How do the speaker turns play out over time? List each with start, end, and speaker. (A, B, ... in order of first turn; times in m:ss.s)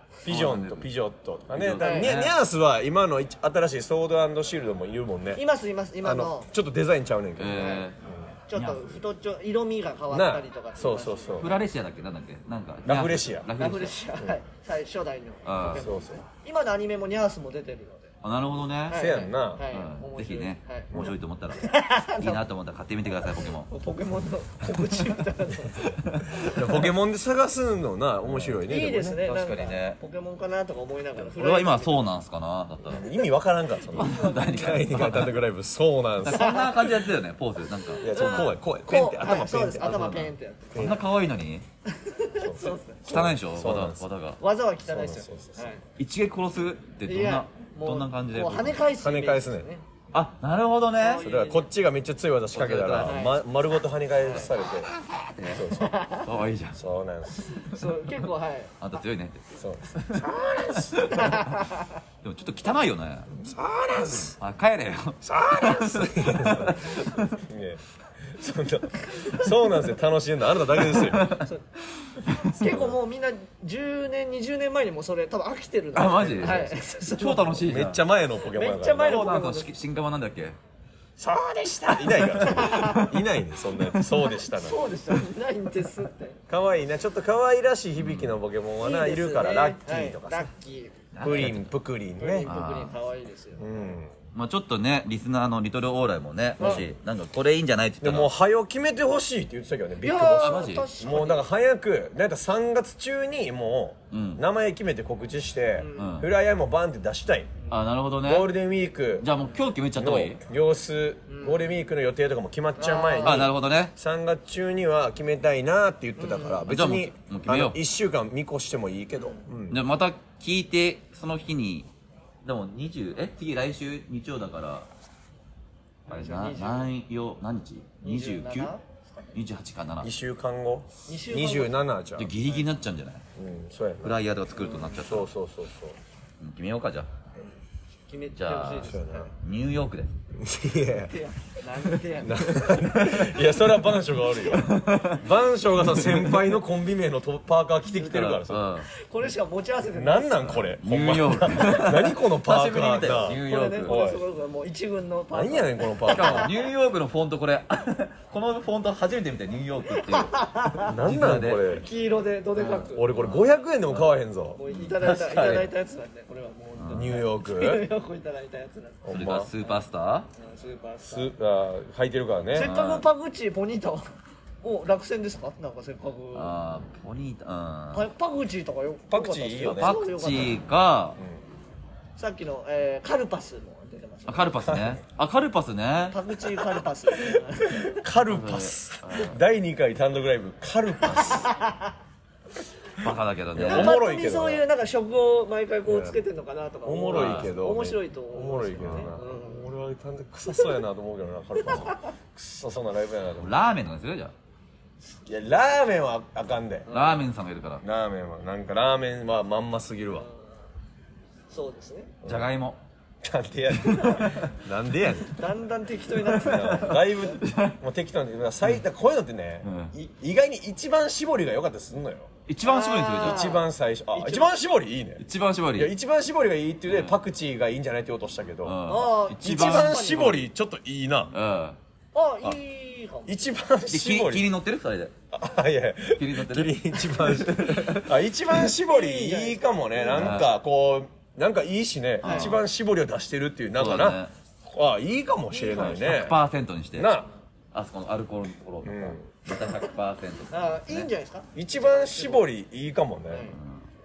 0:00.2-0:05.4 A
0:00.3-0:00.9 B
0:01.5-0:02.4 B
0:01.8-0:02.1 C
0:05.4-0:06.5 C
0:06.0-0:08.2 A
0:07.4-0:08.0 B
0:07.5-0:07.9 C
0:08.5-0:11.5 C
0:08.5-0:09.0 B
0:10.1-0:11.6 A
0:11.4-0:14.0 B
0:12.8-0:13.5 A
0:13.6-0:18.1 C
0:15.4-0:15.9 B
0:15.7-0:16.2 A
0:18.2-0:19.0 B
0:18.9-0:20.9 C
0:18.9-0:19.6 A
0:19.7-0:23.7 B
0:21.6-0:22.4 C
0:23.7-0:26.5 C
0:24.7-0:25.2 B
0:25.9-0:26.5 B
0:26.4-0:29.2 A
0:28.3-0:28.6 B
0:28.7-0:32.1 C
0:29.2-0:30.0 B
0:31.2-0:33.1 B
0:32.9-0:36.6 A
0:33.9-0:35.4 B
0:34.0-0:34.8 C
0:36.2-0:38.2 B
0:36.3-0:37.0 C
0:37.9-0:41.0 C
0:38.0-0:40.0 A
0:39.7-0:41.6 B
0:40.7-0:41.0 A
0:41.9-0:43.3 C
0:42.4-0:44.1 A
0:43.1-0:44.4 B
0:44.4-0:45.8 C
0:44.8-0:45.7 A
0:46.0-0:48.8 B
0:47.1-0:49.8 C
0:49.0-0:49.7 A
0:50.1-0:51.3 B
0:51.0-0:51.7 C
0:51.2-0:54.9 A
0:52.5-0:53.2 B
0:53.0-0:53.4 C
0:54.2-0:54.5 C
0:55.2-0:56.8 B
0:55.5-0:56.0 A
0:55.8-0:56.3 C
0:56.8-0:57.4 A
0:57.4-0:57.8 B
0:57.6-0:58.7 C
0:58.8-1:01.6 B
0:59.6-1:01.4 A
1:01.1-1:01.9 C
1:02.2-1:03.3 B
1:03.3-1:04.4 A
1:04.0-1:07.4 B
1:05.2-1:11.3 A
1:10.9-1:11.5 B
1:12.0-1:12.6 B
1:12.4-1:17.6 C
1:12.6-1:12.9 A
1:15.9-1:18.0 B
1:17.6-1:19.2 A
1:18.5-1:19.7 C
1:19.0-1:20.6 B
1:21.2-1:24.9 A
1:22.2-1:23.1 C
1:22.4-1:23.1 B
1:24.4-1:26.4 C
1:26.5-1:30.5 A
1:28.0-1:28.4 B
1:28.8-1:31.5 C
1:31.1-1:31.7 B
1:31.2-1:32.5 A
1:32.2-1:33.9 C
1:32.5-1:33.0 B
1:33.6-1:34.1 A
1:34.3-1:38.3 B
1:36.6-1:36.9 A
1:38.0-1:47.5 A
1:40.0-1:41.5 C
1:40.4-1:40.9 B
1:44.1-1:44.4 B
1:45.8-1:46.2 C
1:46.0-1:46.3 B
1:47.7-1:48.5 B
1:48.3-1:49.3 A
1:49.2-1:50.4 B
1:50.0-1:59.8 A
1:51.3-1:51.6 C
1:52.8-1:53.5 C
1:53.2-1:53.9 B
1:56.2-1:56.7 C
1:56.7-1:57.8 B
1:59.7-2:01.9 B
2:02.4-2:04.9 B
2:06.1-2:06.9 C
2:06.1-2:08.7 B
2:08.0-2:09.3 C
2:09.3-2:10.1 B
2:10.0-2:12.3 A
2:11.1-2:11.8 C
2:12.2-2:13.2 B
2:13.4-2:14.2 A
2:14.0-2:15.3 B
2:14.6-2:15.0 C
2:15.0-2:16.0 A
2:16.4-2:17.1 B
2:18.1-2:19.3 C
2:18.4-2:20.1 B
2:18.8-2:19.3 A
2:20.4-2:21.1 A
2:21.1-2:22.7 C
2:21.9-2:23.4 B
2:22.2-2:28.7 A
2:24.4-2:25.2 B
2:25.8-2:26.5 B
2:28.0-2:28.9 B
2:28.1-2:30.7 C
2:29.9-2:34.2 A
2:30.8-2:33.9 B
2:33.1-2:36.7 C
2:35.3-2:36.5 A
2:36.1-2:41.8 B
2:39.9-2:40.9 C
2:40.8-2:41.9 A
2:41.7-2:44.0 C
2:42.6-2:43.2 B
2:42.9-2:44.6 A
2:44.5-2:49.8 C
2:44.7-2:45.7 B
2:46.8-2:47.2 B
2:46.9-2:47.9 A
2:49.0-2:49.5 A
2:49.1-2:50.3 B
2:50.4-2:51.3 C
2:51.1-2:52.7 A
2:52.5-2:54.1 C
2:52.6-2:53.0 B
2:54.6-2:56.6 C
2:56.3-2:58.1 B
2:57.9-3:00.6 C
2:59.1-3:00.0 A
2:59.6-3:01.2 B
3:02.2-3:04.6 C
3:04.3-3:06.2 B
3:04.7-3:05.0 A
3:06.1-3:08.0 C
3:07.3-3:11.5 A
3:08.3-3:09.4 B
3:11.2-3:11.9 C
3:13.0-3:14.0 B
3:13.5-3:14.6 A
3:13.6-3:19.7 C
3:15.9-3:16.2 A
3:16.8-3:23.6 A
3:17.1-3:17.5 B
3:23.4-3:24.3 B
3:25.3-3:26.9 A
3:26.9-3:27.2 C
3:26.9-3:27.8 B
3:27.8-3:30.3 A
3:31.5-3:32.1 C
3:32.3-3:32.8 B
3:33.2-3:35.4 A
3:33.8-3:34.3 B
3:34.0-3:34.4 C
3:35.3-3:37.3 C
3:36.3-3:42.3 A
3:36.9-3:37.8 B
3:39.6-3:39.9 B
3:42.5-3:43.6 B
3:42.6-3:44.5 C
3:43.2-3:48.8 A
3:45.2-3:45.9 B
3:46.9-3:47.2 B
3:48.6-3:50.4 B
3:48.8-3:50.4 C
3:49.4-3:51.3 A
3:51.3-3:51.8 B
3:52.1-3:53.4 C
3:53.3-3:54.5 A
3:53.9-3:55.1 B
3:55.3-4:06.4 A
3:56.2-3:58.1 B
3:58.6-4:00.4 C
4:00.2-4:00.5 B
4:02.2-4:02.6 C
4:02.2-4:02.6 B
4:03.8-4:04.3 B
4:05.5-4:06.0 C
4:05.7-4:07.1 B
4:07.0-4:07.3 A
4:07.7-4:11.1 B
4:08.8-4:09.3 A
4:10.5-4:12.5 C
4:11.6-4:13.5 A
4:13.3-4:13.6 C
4:13.5-4:13.8 B